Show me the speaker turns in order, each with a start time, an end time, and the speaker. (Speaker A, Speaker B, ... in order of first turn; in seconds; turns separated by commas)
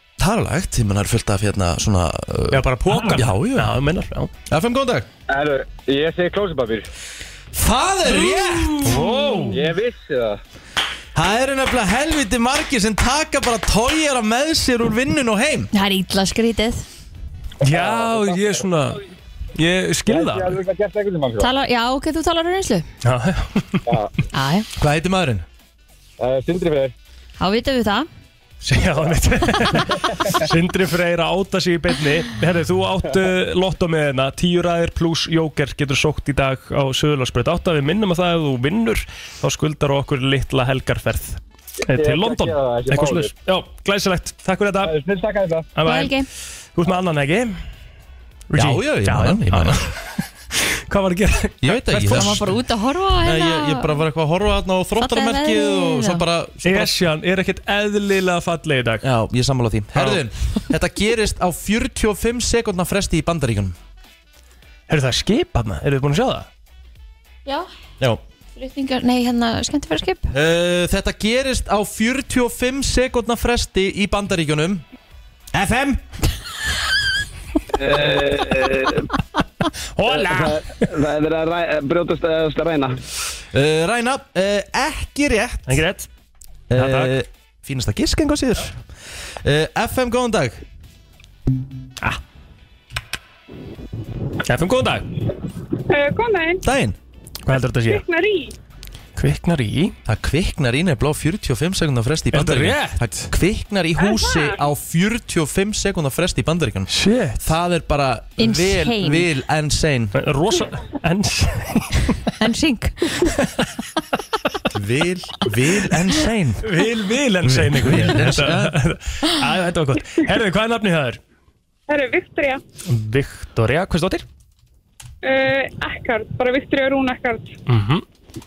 Speaker A: 0.2-3.7, Speaker B: 2.5-4.3, Speaker A: 4.5-5.1, Speaker C: 5.4-6.8, Speaker A: 7.5-9.0, Speaker B: 8.8-9.6, Speaker D: 9.0-9.5, Speaker C: 9.6-10.3, Speaker A: 11.2-15.7, Speaker D: 15.7-16.9, Speaker B: 17.6-19.0, Speaker B: 19.6-20.6, Speaker C: 20.1-21.3, Speaker D: 21.4-22.9, Speaker B: 23.0-23.9, Speaker D: 24.3-24.7, Speaker A: 24.8-25.5, Speaker D: 27.4-28.1, Speaker B: 28.6-45.0, Speaker B: 45.8-46.2, Speaker D: 45.8-46.3, Speaker B: 46.8-47.6, Speaker B: 48.5-50.0, Speaker A: 48.5-49.9, Speaker B: 50.5-52.5, Speaker A: 51.6-52.5, Speaker D: 52.1-54.0, Speaker A: 53.2-56.9, Speaker D: 55.0-56.2, Speaker B: 56.6-59.0, Speaker A: 59.0-63.8, Speaker B: 60.0-60.2, Speaker B: 64.9-66.5, Speaker D: 68.6-70.3, Speaker A: 70.3-74.8, Speaker A: 75.5-76.0, Speaker E: 77.8-79.1, Speaker B: 80.0-80.9, Speaker E: 80.1-83.0, Speaker A: 83.5-85.8, Speaker B: 85.7-86.1, Speaker A: 86.7-88.8, Speaker B: 86.8-87.2, Speaker A: 89.4-90.6, Speaker B: 94.5-95.1, Speaker F: 95.9-96.6, Speaker A: 96.6-97.0, Speaker B: 97.5-98.0, Speaker F: 97.8-98.5, Speaker B: 99.2-100.0, Speaker A: 100.1-110.2, Speaker B: 102.3-103.3, Speaker B: 106.9-107.5, Speaker D: 108.4-109.3, Speaker B: 110.2-112.1, Speaker D: 112.4-113.3, Speaker A: 114.7-116.7, Speaker B: 116.6-121.2, Speaker A: 117.4-118.8, Speaker F: 121.9-122.6, Speaker B: 122.9-124.2, Speaker F: 125.2-127.5, Speaker B: 127.7-128.0